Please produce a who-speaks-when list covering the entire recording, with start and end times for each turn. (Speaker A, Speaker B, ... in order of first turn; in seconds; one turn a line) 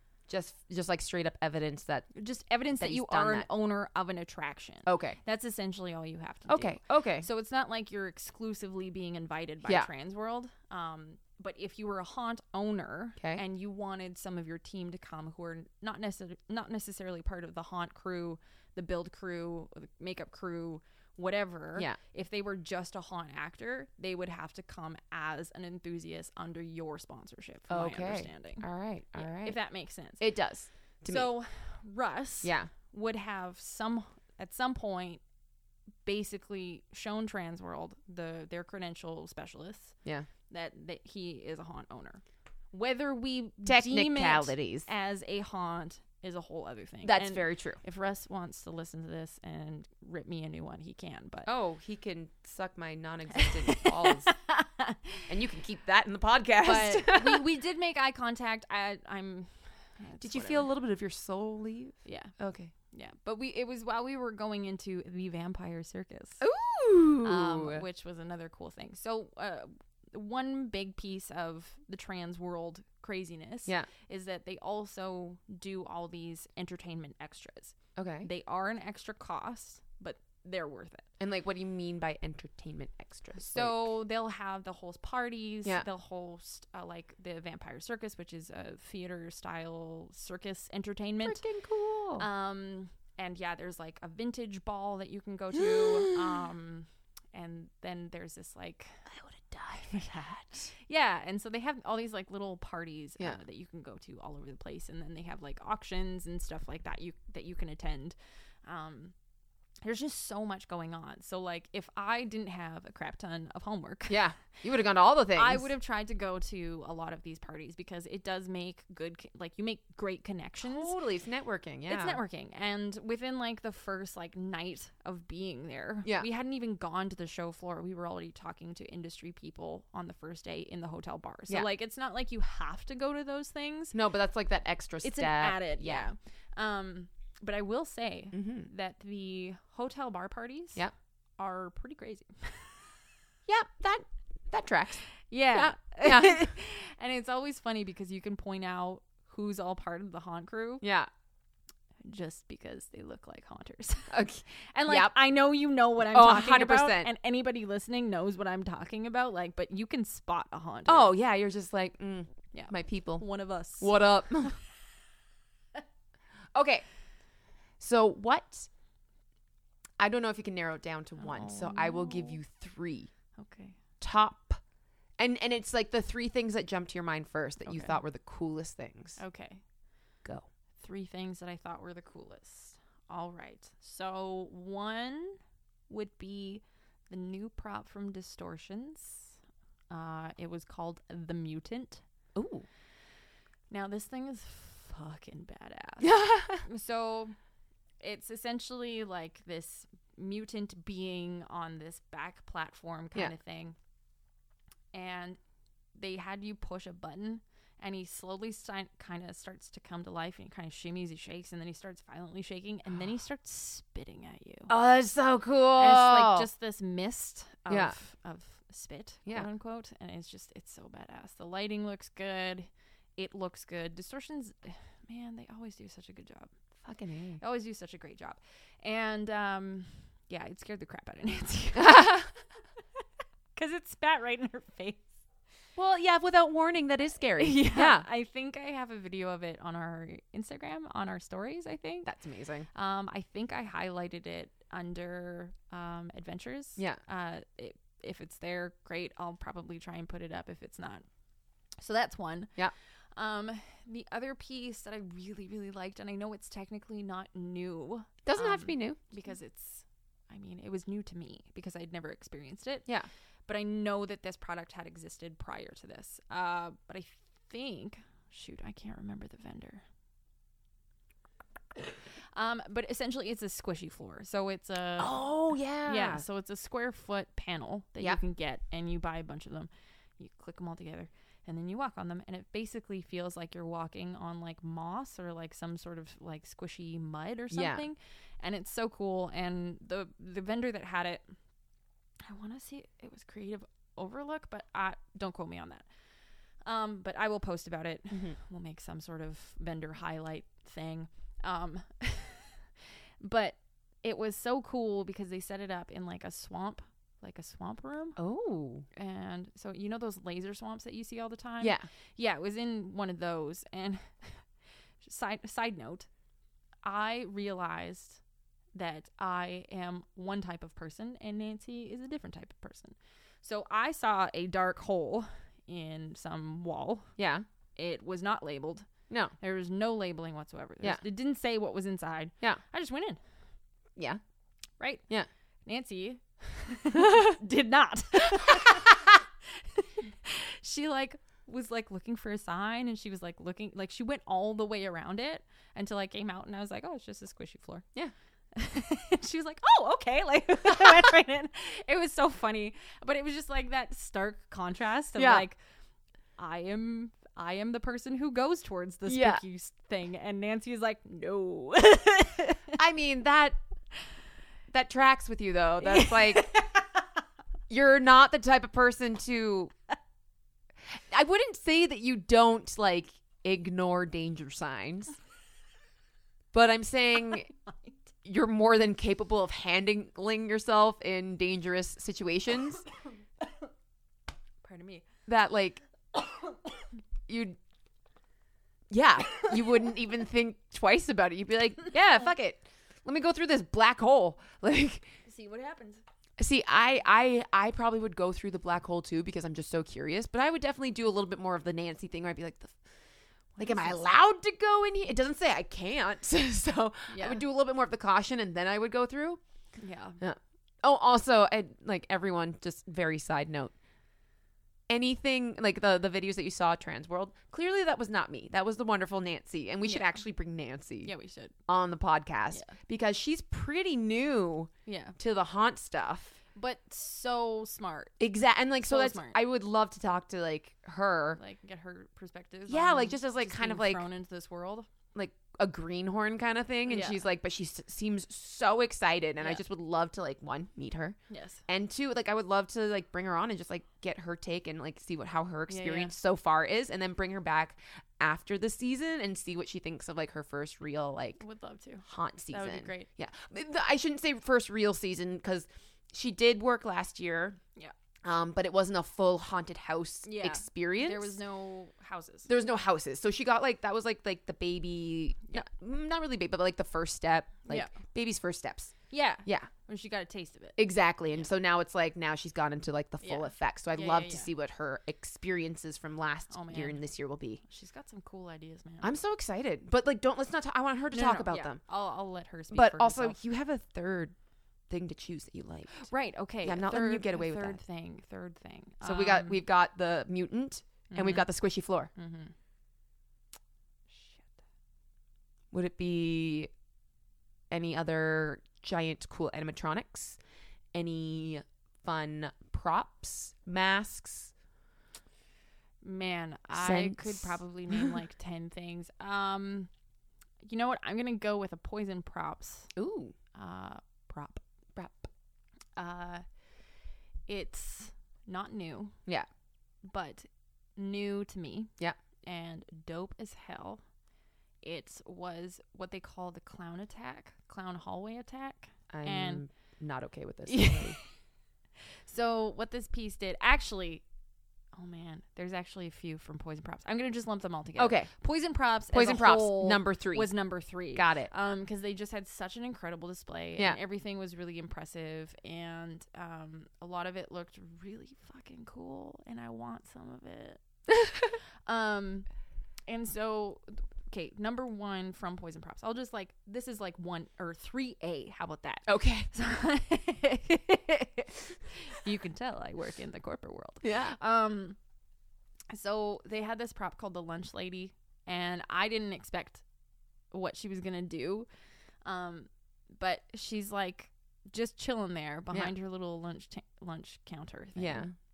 Speaker A: 0.3-2.1
Speaker B: 2.1-30.2
Speaker A: 2.8-3.5
Speaker A: 4.9-5.2
Speaker A: 6.5-7.3
Speaker A: 13.2-13.4
Speaker A: 27.7-29.6
Speaker A: 30.2-31.3
Speaker B: 31.1-35.2
Speaker A: 32.4-32.7
Speaker B: 36.0-40.0
Speaker B: 40.5-51.5
Speaker A: 43.7-44.9
Speaker A: 47.0-47.8
Speaker A: 51.5-54.3
Speaker B: 53.4-55.3
Speaker A: 55.3-57.4
Speaker B: 56.6-60.7
Speaker A: 60.2-62.7
Speaker B: 62.0-66.4
Speaker A: 66.4-67.8
Speaker B: 67.2-81.1
Speaker A: 78.0-78.3
Speaker A: 81.2-83.9
Speaker B: 83.3-91.5
Speaker A: 91.2-92.2
Speaker B: 92.2-99.1
Speaker A: 95.5-96.5
Speaker A: 99.1-100.7
Speaker B: 99.7-109.1
Speaker B: 109.8-114.2
Speaker A: 114.1-115.7
Speaker B: 115.3-121.0
Speaker A: 120.6-122.2
Speaker B: 121.9-134.0
Speaker A: 133.9-136.1
Speaker B: 135.0-140.8
Speaker A: 138.3-138.7
Speaker B: 141.4-142.9
Speaker A: 143.5-146.5
Speaker B: 145.3-150.8
Speaker A: 150.8-151.1
Speaker B: 152.1-154.2
Speaker A: 154.1-155.1
Speaker B: 154.7-161.1
Speaker A: 156.0-157.1
Speaker A: 160.9-164.6
Speaker B: 162.5-164.7
Speaker A: 166.6-166.9
Speaker A: 167.8-168.7
Speaker A: 170.0-173.1
Speaker B: 171.2-172.4
Speaker B: 173.4-173.8
Speaker A: 174.0-174.6
Speaker A: 175.2-179.2
Speaker B: 177.7-178.0
Speaker B: 179.2-179.6
Speaker B: 180.8-189.4
Speaker B: 189.9-192.0
Speaker A: 192.3-192.7
Speaker B: 193.7-197.4
Speaker A: 196.0-196.7
Speaker B: 198.0-203.8
Speaker B: 204.9-205.4
Speaker B: 205.9-214.7
Speaker A: 214.7-216.5
Speaker B: 215.8-226.5
Speaker A: 217.7-218.0
Speaker A: 226.8-227.4
Speaker B: 227.4-232.2
Speaker A: 231.8-232.3
Speaker B: 233.6-235.1
Speaker A: 235.8-238.1
Speaker B: 237.4-242.1
Speaker A: 242.1-242.7
Speaker B: 242.7-251.1
Speaker B: 251.8-252.6
Speaker B: 253.2-262.9
Speaker A: 258.2-259.0
Speaker B: 263.5-269.8
Speaker B: 272.3-275.2
Speaker A: 275.0-276.2
Speaker B: 275.9-291.3
Speaker A: 287.5-287.9
Speaker B: 292.3-295.9
Speaker B: 296.6-302.6
Speaker A: 298.1-298.4
Speaker B: 303.2-308.2
Speaker A: 308.2-308.9
Speaker B: 308.9-316.1
Speaker A: 311.6-311.9
Speaker B: 316.8-318.2
Speaker B: 318.8-327.1
Speaker A: 327.2-327.5
Speaker B: 327.8-328.9
Speaker B: 329.4-333.2
Speaker B: 334.8-335.1
Speaker B: 335.7-347.9
Speaker A: 338.3-338.9
Speaker B: 348.5-355.6
Speaker A: 355.2-355.4
Speaker B: 356.4-362.7
Speaker A: 359.1-359.4
Speaker A: 362.7-363.6
Speaker A: 364.7-366.5
Speaker B: 365.8-366.9
Speaker A: 367.7-369.7
Speaker A: 370.9-375.2
Speaker A: 376.5-377.5
Speaker B: 377.7-377.9
Speaker A: 378.2-382.9
Speaker B: 384.6-385.1
Speaker A: 385.3-385.8
Speaker A: 387.3-387.6
Speaker A: 388.9-395.1
Speaker B: 395.3-396.0
Speaker A: 396.4-402.8
Speaker B: 403.6-404.0
Speaker A: 403.6-409.4
Speaker B: 407.1-407.4
Speaker B: 409.8-410.2
Speaker A: 410.2-413.7
Speaker A: 414.9-421.1
Speaker B: 419.8-420.1
Speaker B: 421.0-421.5
Speaker A: 421.7-426.4
Speaker B: 422.5-422.8
Speaker B: 424.9-425.2
Speaker B: 426.6-428.2
Speaker A: 428.2-431.4
Speaker B: 428.8-429.4
Speaker B: 431.4-434.9
Speaker A: 432.7-434.0
Speaker A: 435.1-441.2
Speaker B: 436.9-437.2
Speaker B: 441.3-441.6
Speaker A: 441.7-451.4
Speaker B: 445.7-446.1
Speaker B: 451.4-453.1
Speaker A: 452.1-457.6
Speaker A: 458.2-461.4
Speaker B: 460.2-462.5
Speaker A: 462.5-468.9
Speaker B: 467.7-467.9
Speaker B: 469.1-470.8
Speaker A: 469.4-469.7
Speaker A: 470.8-477.6
Speaker B: 473.2-474.5
Speaker B: 476.5-477.0
Speaker B: 477.6-479.1
Speaker A: 479.0-481.8
Speaker B: 481.1-483.4
Speaker A: 482.7-484.4
Speaker A: 484.9-486.1
Speaker B: 485.9-489.6
Speaker A: 486.6-487.8
Speaker A: 489.0-492.1
Speaker B: 491.1-491.5
Speaker B: 492.1-492.5
Speaker B: 494.1-494.5
Speaker A: 495.7-496.7
Speaker A: 497.7-500.4
Speaker A: 500.9-504.5
Speaker B: 506.0-509.9
Speaker A: 506.7-508.1
Speaker B: 510.6-512.9
Speaker A: 513.0-513.4
Speaker B: 513.5-514.6
Speaker B: 516.0-516.4
Speaker B: 517.5-519.2
Speaker B: 520.0-524.0
Speaker B: 524.8-529.6
Speaker A: 529.1-531.2
Speaker B: 530.7-531.3
Speaker B: 532.3-534.2
Speaker B: 534.9-550.8
Speaker A: 538.0-538.3
Speaker A: 539.1-540.5
Speaker A: 541.1-541.5
Speaker A: 551.1-551.5
Speaker B: 551.9-552.5
Speaker B: 553.1-565.0
Speaker A: 559.1-559.5
Speaker A: 564.0-564.4
Speaker B: 565.9-569.8
Speaker B: 570.5-571.7
Speaker B: 572.2-578.3
Speaker A: 578.0-578.3